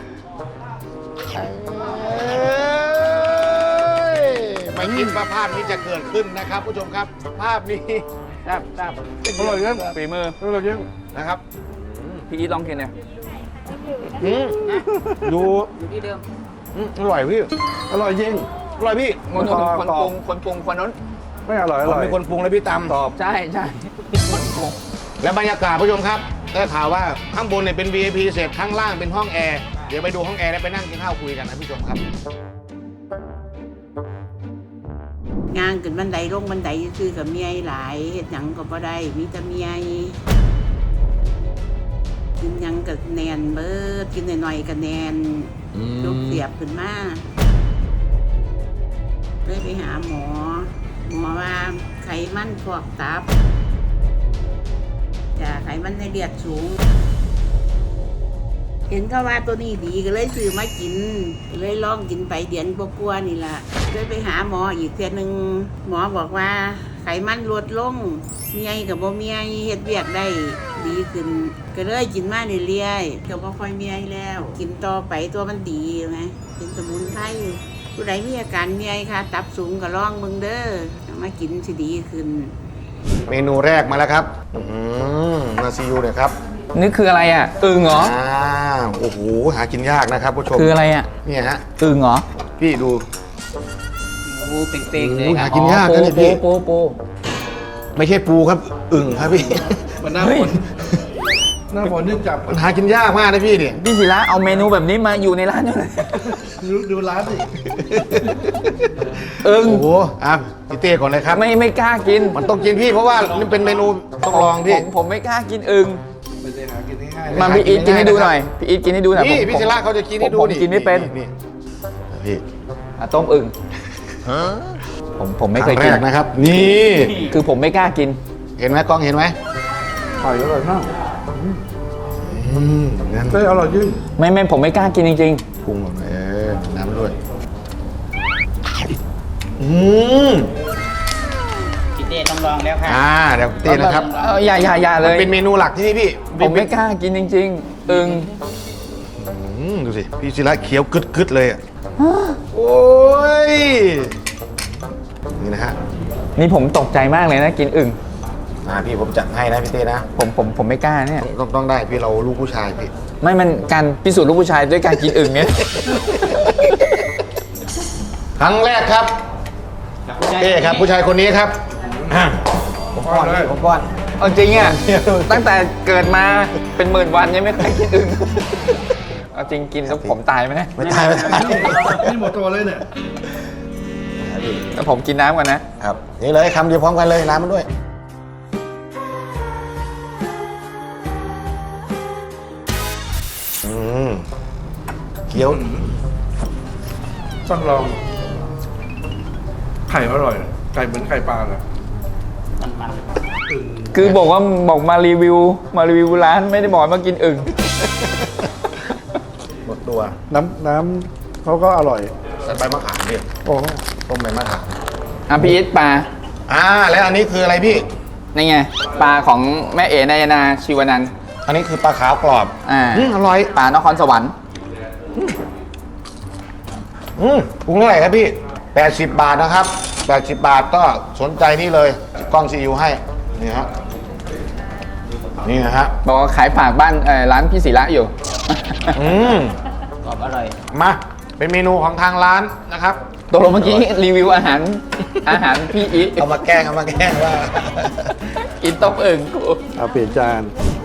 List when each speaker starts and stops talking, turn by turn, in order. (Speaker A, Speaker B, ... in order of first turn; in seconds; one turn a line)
Speaker A: 1.3-9.8
Speaker B: 4.9-5.1
Speaker B: 9.3-10.7
Speaker C: 9.4-10.4
Speaker A: 10.4-12.2
Speaker C: 12.3-12.9
Speaker A: 14.2-14.6
Speaker B: 14.7-15.3
Speaker A: 15.2-15.7
Speaker D: 15.7-16.2
Speaker A: 16.7-17.5
Speaker B: 17.9-18.5
Speaker A: 18.8-19.2
Speaker C: 19.3-20.9
Speaker B: 19.3-20.1
Speaker B: 21.5-22.2
Speaker A: 21.8-22.9
Speaker C: 22.9-24.8
Speaker A: 25.2-32.0
Speaker E: 35.5-40.2
Speaker E: 42.4-47.2
Speaker A: 45.7-46.4
Speaker E: 49.4-53.3
Speaker E: 55.4-56.8
Speaker E: 58.9-82.5
Speaker A: 83.3-86.3
Speaker C: 86.7-88.1
Speaker A: 87.8-91.7
Speaker C: 90.5-91.1
Speaker C: 91.8-92.2
Speaker A: 92.6-93.0
Speaker D: 94.2-95.5
Speaker A: 94.9-96.4
Speaker C: 95.3-97.0
Speaker A: 98.0-100.0
Speaker B: 100.0-100.6
Speaker C: 100.2-100.6
Speaker B: 101.7-102.6
Speaker A: 102.5-103.8
Speaker C: 103.8-106.4
Speaker B: 106.3-107.6
Speaker A: 107.7-111.4
Speaker C: 109.4-109.9
Speaker C: 111.3-112.4
Speaker A: 112.3-114.9
Speaker C: 114.2-116.0
Speaker B: 116.4-117.7
Speaker A: 117.3-118.4
Speaker C: 117.3-121.1
Speaker A: 119.1-121.3
Speaker A: 122.1-122.4
Speaker C: 123.0-123.5
Speaker C: 125.2-126.0
Speaker A: 125.5-127.3
Speaker C: 127.0-128.2
Speaker A: 128.6-129.3
Speaker B: 130.2-130.9
Speaker A: 132.2-133.4
Speaker B: 133.3-134.0
Speaker C: 134.2-135.4
Speaker A: 135.6-137.1
Speaker A: 139.6-140.5
Speaker D: 141.9-143.0
Speaker A: 142.8-144.1
Speaker C: 143.7-145.3
Speaker D: 143.8-144.7
Speaker A: 145.0-146.7
Speaker C: 146.4-148.3
Speaker D: 147.9-148.3
Speaker A: 149.2-151.6
Speaker C: 152.0-152.4
Speaker A: 152.5-154.1
Speaker A: 155.4-155.8
Speaker C: 156.4-158.0
Speaker A: 158.6-160.1
Speaker C: 160.2-161.3
Speaker A: 161.2-162.9
Speaker C: 163.2-167.0
Speaker A: 168.4-169.1
Speaker D: 170.1-170.9
Speaker A: 170.3-173.9
Speaker B: 171.8-172.3
Speaker B: 173.0-173.5
Speaker C: 174.2-178.7
Speaker A: 174.5-175.4
Speaker C: 179.3-180.8
Speaker A: 179.8-180.2
Speaker A: 180.8-182.1
Speaker D: 180.8-182.1
Speaker B: 181.2-182.8
Speaker A: 184.2-184.7
Speaker C: 184.7-185.6
Speaker A: 185.8-187.7
Speaker A: 193.6-194.2
Speaker A: 195.3-195.9
Speaker B: 195.3-195.9
Speaker B: 197.4-198.0
Speaker B: 199.9-201.6
Speaker D: 202.6-203.2
Speaker B: 203.5-203.9
Speaker C: 203.9-207.6
Speaker A: 203.9-204.2
Speaker A: 209.6-210.2
Speaker B: 210.3-212.1
Speaker A: 212.4-213.3
Speaker B: 213.4-213.8
Speaker A: 214.0-214.8
Speaker C: 215.3-216.1
Speaker A: 216.5-217.9
Speaker C: 218.3-221.1
Speaker A: 221.5-223.5
Speaker C: 222.6-224.3
Speaker A: 227.2-233.7
Speaker A: 235.4-235.9
Speaker C: 236.0-239.0
Speaker A: 238.9-239.6
Speaker D: 240.0-240.6
Speaker A: 240.7-243.8
Speaker C: 243.3-246.3
Speaker A: 246.1-248.2
Speaker C: 248.3-249.6
Speaker B: 249.7-250.5